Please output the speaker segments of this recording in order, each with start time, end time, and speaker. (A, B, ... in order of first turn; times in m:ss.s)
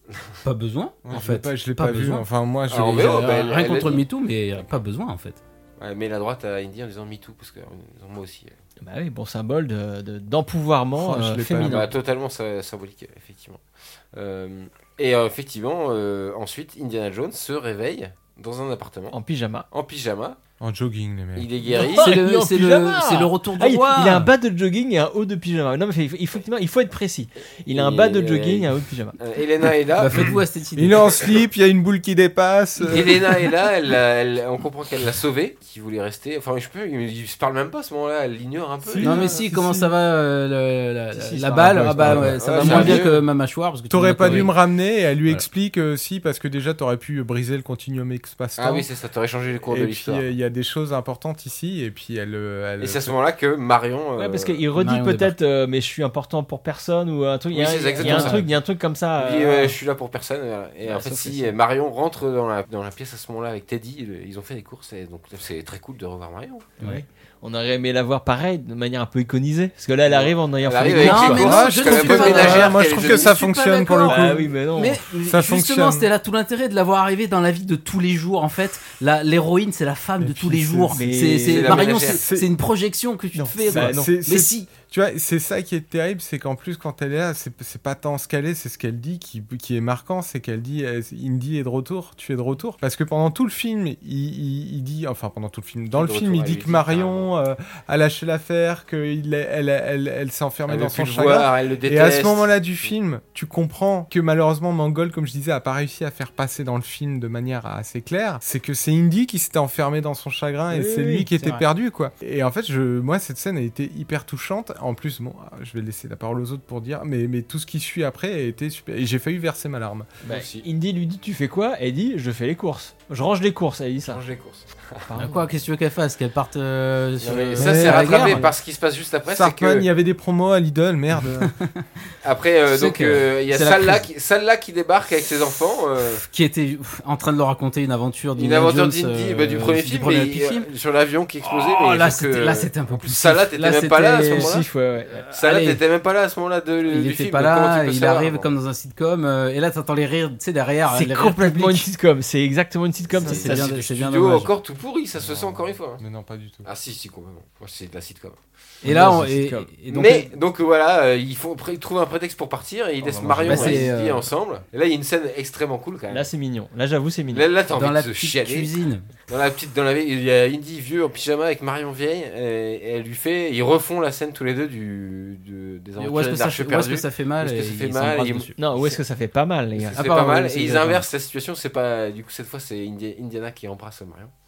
0:00.4-0:02.2 A
0:01.0-0:03.2 B
0:02.7-0:04.0 C
0:02.8-0:05.4 A
0:05.8-0:08.5 C
0:08.8-0:11.9 D
0:10.9-0:11.9 B
0:11.6-0:13.6 C
0:14.1-0:19.2 C
0:19.1-0:19.7 D
0:19.7-0:20.4 C
0:20.6-0:21.5 B
0:21.4-0:22.1 C
0:21.7-0:29.2 D
0:21.7-0:24.3 A
0:27.7-0:30.3 C
0:30.0-0:31.1 A
0:30.8-0:33.4 B
0:32.9-0:39.3 C
0:38.9-0:39.3 D
0:39.0-0:39.9 B
0:39.0-0:44.5 A
0:41.1-0:43.1 D
0:42.1-0:42.9 B
0:42.1-0:43.2 C
0:43.9-0:48.9 B
0:48.6-0:50.3 C
0:49.6-0:53.2 B
0:52.8-0:54.6 C
0:54.2-0:59.8 D
0:54.7-0:55.3 A
0:57.5-0:58.5 C
0:58.0-0:58.4 A
0:59.2-1:06.7 C
1:00.8-1:01.5 D
1:06.8-1:11.7 D
1:10.1-1:13.3 C
1:11.0-1:24.7 A
1:11.4-1:14.5 B
1:14.0-1:15.0 D
1:15.2-1:16.1 B
1:20.2-1:21.0 B
1:20.9-1:21.9 D
1:21.4-1:22.2 C
1:22.1-1:22.5 B
1:23.4-1:24.2 D
1:23.6-2:00.1 B
1:35.9-1:37.3 C
1:40.7-1:42.5 C
1:50.7-1:51.3 D
1:51.4-1:51.6 A
2:00.2-2:04.2 D
2:00.3-2:00.6 C
2:04.0-2:05.1 C
2:05.1-2:05.5 D
2:05.2-2:08.5 A
2:07.2-2:09.9 C
2:07.6-2:08.4 B
2:09.3-2:11.5 B
2:11.4-2:11.8 A
2:12.2-2:16.2 C
2:12.7-2:14.0 A
2:16.3-2:20.7 A
2:18.4-2:24.7 C
2:21.4-2:24.5 A
2:24.3-2:25.3 D
2:25.3-2:25.8 A
2:25.3-2:28.5 C
2:26.9-2:31.9 A
2:30.9-2:33.7 D
2:33.1-2:36.0 C
2:33.2-2:34.5 A
2:35.2-2:36.7 B
2:36.6-2:38.4 C
2:38.8-2:39.7 D
2:38.8-2:40.3 A
2:39.9-2:46.3 C
2:43.0-2:43.9 D
2:43.4-2:44.3 A
2:46.1-2:47.4 D
2:47.3-2:48.7 C
2:47.7-2:49.1 A
2:49.3-2:59.0 C
2:56.0-2:58.6 A
2:58.6-3:01.0 D
2:59.8-3:04.3 C
3:00.0-3:00.5 A